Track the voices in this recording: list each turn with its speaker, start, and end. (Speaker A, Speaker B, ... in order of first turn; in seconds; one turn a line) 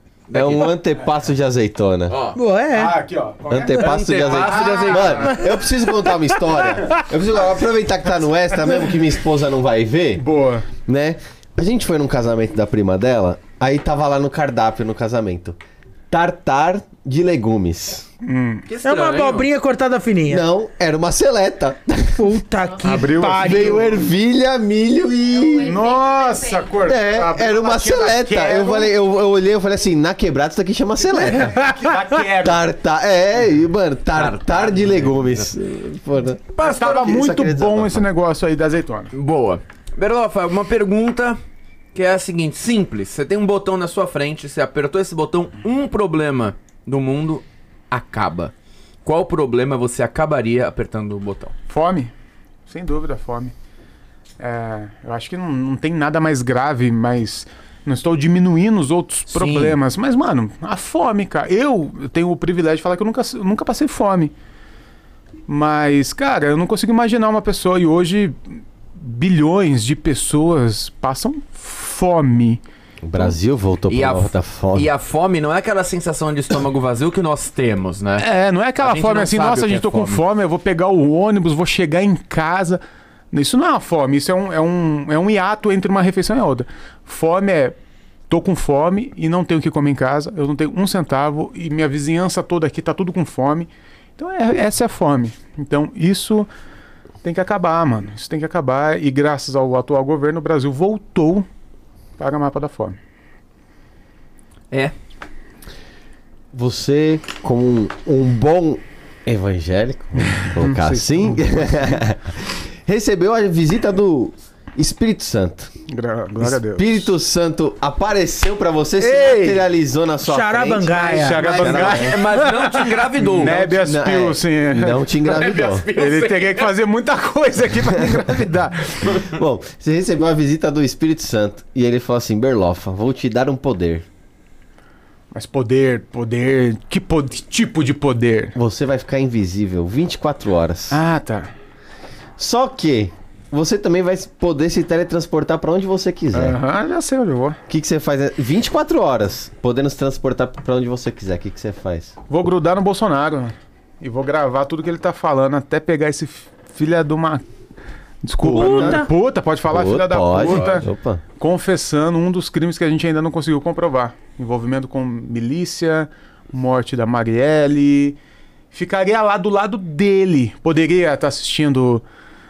Speaker A: 0.3-0.8
Speaker B: 0.3-2.2
Speaker A: 2.1-2.4
Speaker C: 2.4-3.0
Speaker D: 2.7-5.4
Speaker B: 3.5-10.2
Speaker A: 3.7-5.4
Speaker C: 5.2-5.6
Speaker D: 10.2-10.7
Speaker B: 10.9-15.6
Speaker B: 16.1-18.1
Speaker D: 18.2-18.7
Speaker A: 18.7-19.5
Speaker C: 18.8-20.5
Speaker B: 20.3-22.3
Speaker C: 22.2-24.0
Speaker D: 22.8-24.1
Speaker B: 23.4-25.8
Speaker D: 25.6-28.9
Speaker B: 26.8-31.6
Speaker D: 31.2-32.7
Speaker B: 32.4-38.0
Speaker A: 34.1-35.5
Speaker D: 36.6-39.1
Speaker A: 39.1-41.4
Speaker A: 41.9-48.5
Speaker A: 49.0-51.5
Speaker D: 51.7-52.1
Speaker D: 52.7-53.5
Speaker D: 54.4-64.3
Speaker A: 59.3-59.8
Speaker D: 65.5-72.6
Speaker B: 73.0-74.9
Speaker A: 73.9-78.3
Speaker D: 78.2-87.8
Speaker A: 78.8-80.2
Speaker D: 88.3-96.5
Speaker D: 97.2-101.5
Speaker D: 102.2-103.0
Speaker B: 106.5-115.7
Speaker D: 110.3-111.4
Speaker D: 115.9-117.1
Speaker B: 116.4-122.1
Speaker D: 119.0-119.7
Speaker C: 120.2-121.5
Speaker D: 121.0-125.1
Speaker A: 121.4-123.8
Speaker B: 123.5-125.9
Speaker A: 125.2-126.7
Speaker D: 126.0-129.3
Speaker B: 129.1-134.1
Speaker D: 135.3-138.6
Speaker B: 138.6-141.0
Speaker D: 140.9-141.5
Speaker B: 142.4-146.6
Speaker D: 146.3-147.6
Speaker B: 147.7-152.1
Speaker D: 152.3-157.4
Speaker D: 158.2-168.2
Speaker B: 158.4-159.1
Speaker C: 158.5-159.1
Speaker B: 159.7-161.2
Speaker A: 160.3-160.8
Speaker D: 168.7-172.1